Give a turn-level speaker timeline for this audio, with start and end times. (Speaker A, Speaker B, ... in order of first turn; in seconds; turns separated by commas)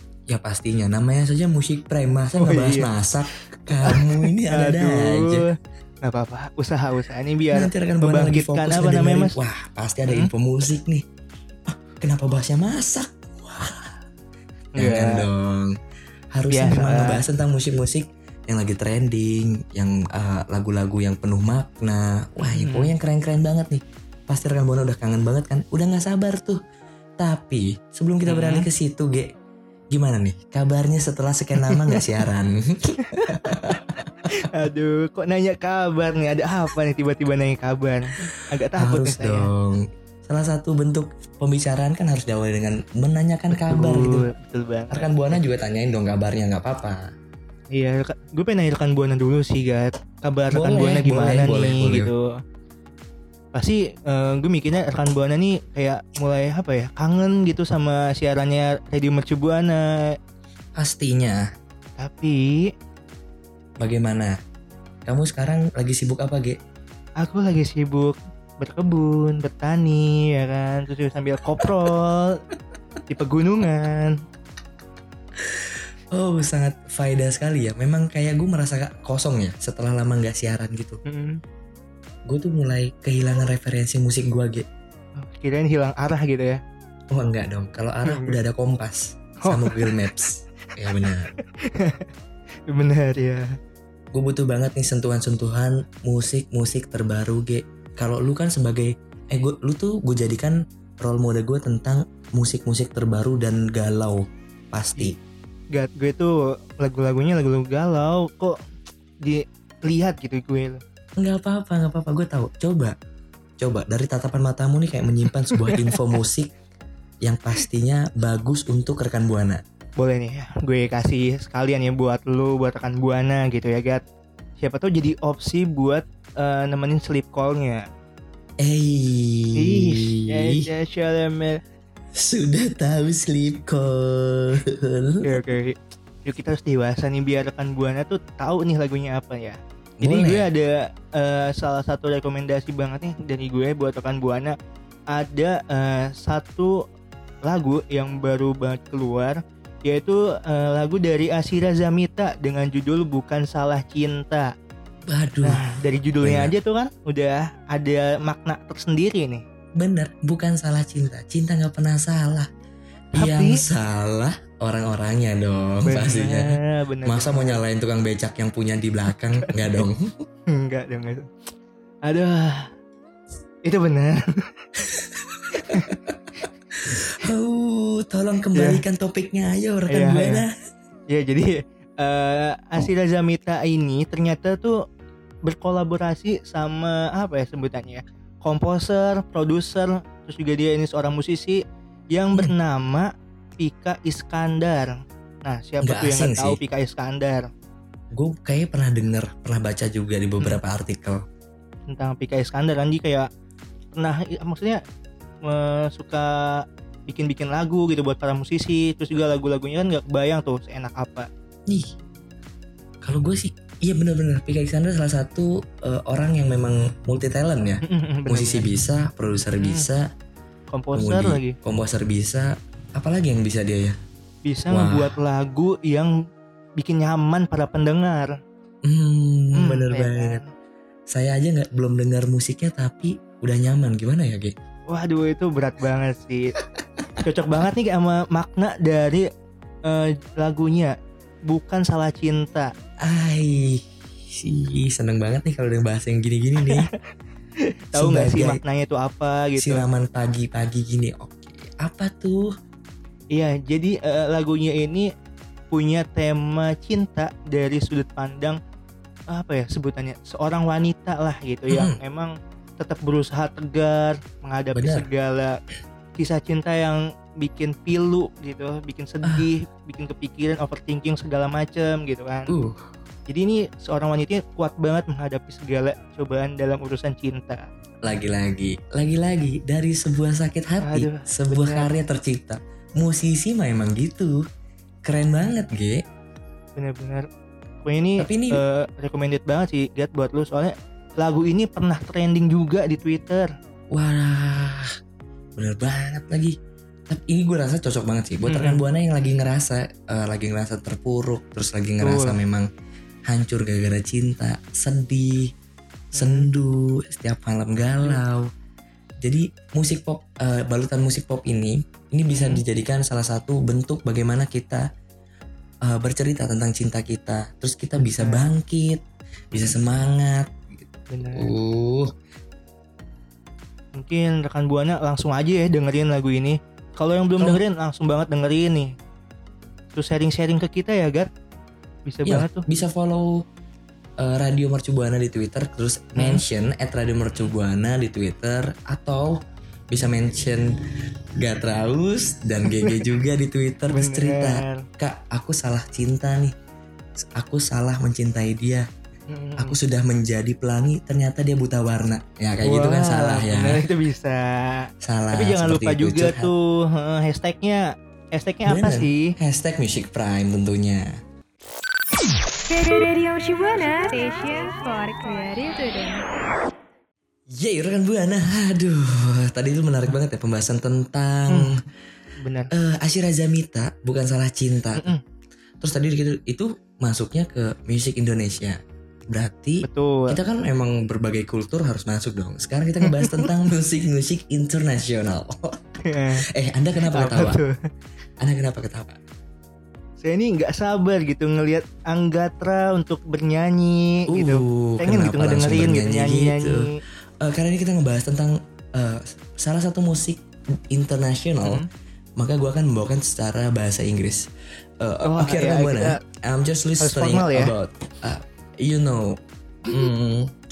Speaker A: 0.3-5.5, Speaker B: 2.3-2.9, Speaker B: 3.8-9.4, Speaker A: 7.5-11.1, Speaker A: 11.7-14.0, Speaker B: 14.7-15.3, Speaker A: 14.8-15.8, Speaker A: 16.3-26.6, Speaker B: 16.5-17.2, Speaker B: 22.4-22.9, Speaker A: 27.2-29.3, Speaker B: 28.3-28.7, Speaker A: 29.9-34.0, Speaker B: 31.6-32.0, Speaker B: 33.0-33.4, Speaker B: 34.3-39.5, Speaker A: 38.8-44.3, Speaker B: 43.5-45.4, Speaker A: 44.9-47.1, Speaker B: 47.7-52.3, Speaker A: 50.5-52.1, Speaker B: 53.5-60.1, Speaker A: 60.8-61.5, Speaker B: 62.0-62.7, Speaker A: 63.8-64.4, Speaker A: 65.1-66.6, Speaker B: 67.2-72.4, Speaker B: 73.1-74.2, Speaker A: 75.4-81.0, Speaker B: 81.1-81.4, Speaker A: 82.3-84.7, Speaker B: 85.2-86.6, Speaker A: 87.1-91.3, Speaker B: 88.1-88.4, Speaker B: 89.5-90.0, Speaker B: 91.6-92.1, Speaker B: 92.7-93.5, Speaker A: 94.1-105.2, Speaker B: 105.7-108.6, Speaker B: 109.2-110.8, Speaker A: 111.2-113.0, Speaker A: 113.6-116.5, Speaker B: 115.5-116.0, Speaker A: 117.2-119.6, Speaker B: 120.0-124.0, Speaker B: 124.6-127.9, Speaker A: 128.6-130.7, Speaker B: 129.6-131.6, Speaker A: 132.2-135.3, Speaker B: 135.2-144.6, Speaker A: 140.0-140.5, Speaker B: 145.1-146.8, Speaker B: 147.5-154.5, Speaker A: 155.1-155.7, Speaker B: 155.4-159.4, Speaker A: 156.2-156.5, Speaker A: 159.8-162.5, Speaker A: 163.1-170.2, Speaker B: 163.2-163.6, Speaker B: 165.8-167.6, Speaker B: 169.4-169.8, Speaker B: 170.5-171.3, Speaker B: 172.0-172.7, Speaker B: 173.7-174.5, Speaker A: 174.9-176.1, Speaker B: 175.6-176.0, Speaker A: 176.8-180.5, Speaker B: 178.6-178.8, Speaker B: 179.9-180.4, Speaker B: 181.1-184.8, Speaker B: 185.4-197.5, Speaker A: 195.8-196.6, Speaker A: 198.1-201.2, Speaker B: 201.9-203.3, Speaker B: 203.9-204.8, Speaker B: 205.4-211.3, Speaker A: 211.7-211.9, Speaker A: 213.0-220.1, Speaker B: 217.8-218.7, Speaker B: 219.6-219.8, Speaker B: 220.7-221.6, Speaker A: 220.9-224.0, Speaker B: 224.4-226.1, Speaker A: 224.7-225.1, Speaker B: 226.8-228.3, Speaker A: 228.8-230.4, Speaker B: 229.6-230.4, Speaker A: 231.1-234.6, Speaker B: 234.9-236.6, Speaker B: 237.2-239.3, Speaker B: 239.9-240.9, Speaker B: 241.5-242.7, Speaker A: 243.0-246.9, Speaker B: 247.9-249.8, Speaker A: 247.9-248.6, Speaker A: 249.6-252.5, Speaker B: 253.3-255.1, Speaker B: 255.7-258.6, Speaker B: 259.3-265.6, Speaker A: 261.7-262.0, Speaker A: 264.7-265.1, Speaker B: 266.2-272.5, Speaker A: 269.2-269.5, Speaker A: 272.5-272.9, Speaker B: 273.3-277.7, Speaker A: 278.0-284.4, Speaker B: 280.8-281.9, Speaker A: 285.1-286.0, Speaker B: 286.8-287.3, Speaker B: 287.8-293.5, Speaker A: 288.2-288.6, Speaker A: 293.9-295.0, Speaker A: 295.6-296.6, Speaker A: 297.1-302.7, Speaker B: 298.5-298.8, Speaker B: 302.0-302.4, Speaker A: 303.3-305.5, Speaker B: 306.1-306.5, Speaker A: 306.1-308.5, Speaker A: 309.2-314.9, Speaker B: 312.3-312.6, Speaker A: 315.8-322.1, Speaker B: 318.0-318.4, Speaker B: 321.1-321.5, Speaker B: 324.0-328.9, Speaker B: 329.9-331.3, Speaker B: 332.1-332.6, Speaker A: 332.3-333.4, Speaker A: 334.2-340.8, Speaker B: 336.2-336.4, Speaker A: 341.4-346.6, Speaker B: 342.8-343.0, Speaker B: 343.9-344.9, Speaker A: 347.2-348.9, Speaker B: 349.3-349.8, Speaker A: 349.6-353.8, Speaker B: 352.6-359.3, Speaker A: 355.0-356.5, Speaker A: 358.6-361.2, Speaker C: 362.7-366.2, Speaker A: 367.5-371.9, Speaker B: 371.5-371.8, Speaker B: 372.4-372.7, Speaker A: 372.7-375.1, Speaker B: 375.0-375.2, Speaker A: 375.8-387.6, Speaker B: 379.8-380.4, Speaker B: 383.1-383.4, Speaker B: 386.1-386.5, Speaker B: 387.0-387.8, Speaker A: 388.4-389.2, Speaker B: 390.2-397.0, Speaker A: 394.3-401.8, Speaker A: 402.4-404.5, Speaker A: 405.0-410.5, Speaker B: 405.2-406.2, Speaker B: 407.0-407.7